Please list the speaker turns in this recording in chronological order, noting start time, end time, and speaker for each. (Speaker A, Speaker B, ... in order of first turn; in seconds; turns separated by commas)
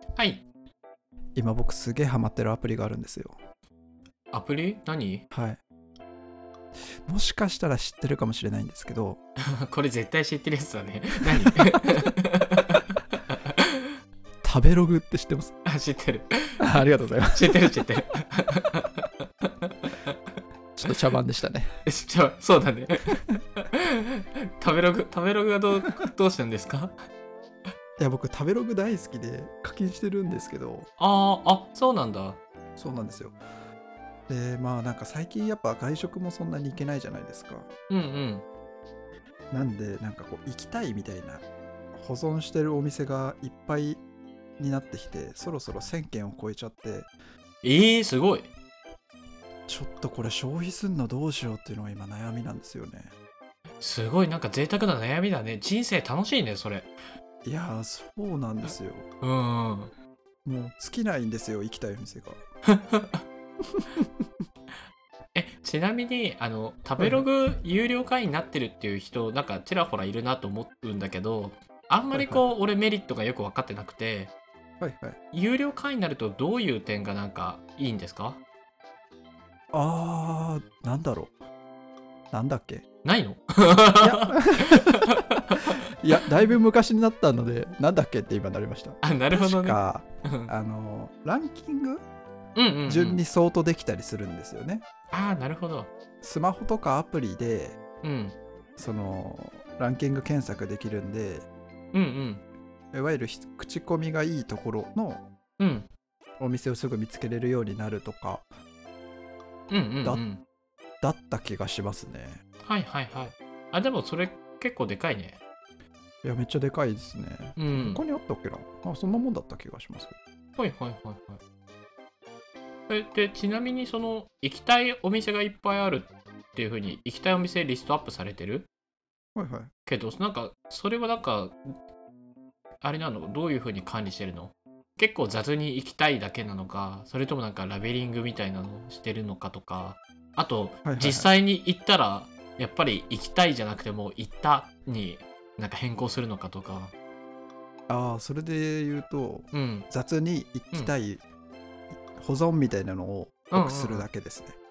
Speaker A: 0.2-0.4, Speaker B: 1.3-3.4, Speaker A: 4.3-5.2, Speaker B: 5.3-5.6, Speaker B: 7.0-9.2, Speaker A: 9.5-13.8, Speaker B: 11.4-12.1, Speaker B: 14.4-15.6, Speaker A: 15.7-16.6, Speaker B: 16.6-17.8, Speaker A: 17.3-20.1, Speaker B: 20.7-21.7, Speaker A: 21.9-26.9, Speaker B: 28.0-30.9, Speaker A: 31.0-32.4, Speaker B: 32.8-33.4, Speaker B: 34.3-37.7, Speaker A: 37.9-38.4, Speaker B: 39.5-44.0, Speaker B: 44.6-47.1, Speaker A: 47.6-48.5, Speaker B: 49.7-53.1, Speaker A: 53.8-56.9, Speaker B: 57.4-59.1, Speaker A: 58.6-59.9, Speaker B: 60.4-62.4, Speaker A: 62.7-63.2, Speaker B: 63.8-64.1, Speaker A: 65.3-74.3, Speaker B: 67.0-67.2, Speaker B: 72.1-72.4, Speaker B: 74.8-75.2, Speaker A: 75.3-78.4, Speaker B: 79.7-81.3, Speaker B: 82.3-82.8, Speaker A: 83.0-85.8, Speaker B: 83.9-92.0, Speaker A: 89.0-90.5, Speaker A: 92.5-93.2, Speaker B: 92.8-94.8, Speaker A: 95.1-95.9, Speaker B: 96.2-97.8, Speaker A: 98.0-98.3, Speaker B: 98.8-101.5, Speaker A: 101.9-102.4, Speaker B: 102.9-105.2, Speaker A: 105.6-105.9, Speaker B: 106.4-108.5, Speaker A: 109.7-110.4, Speaker B: 111.0-112.4, Speaker A: 112.6-115.4, Speaker B: 116.2-120.2, Speaker A: 117.6-118.0, Speaker A: 120.6-121.4, Speaker A: 122.9-128.7, Speaker B: 129.3-129.7, Speaker A: 129.8-131.6, Speaker A: 132.8-146.9, Speaker B: 140.8-141.3, Speaker B: 147.9-151.2, Speaker A: 149.5-149.9, Speaker B: 152.1-154.6, Speaker A: 153.5-154.1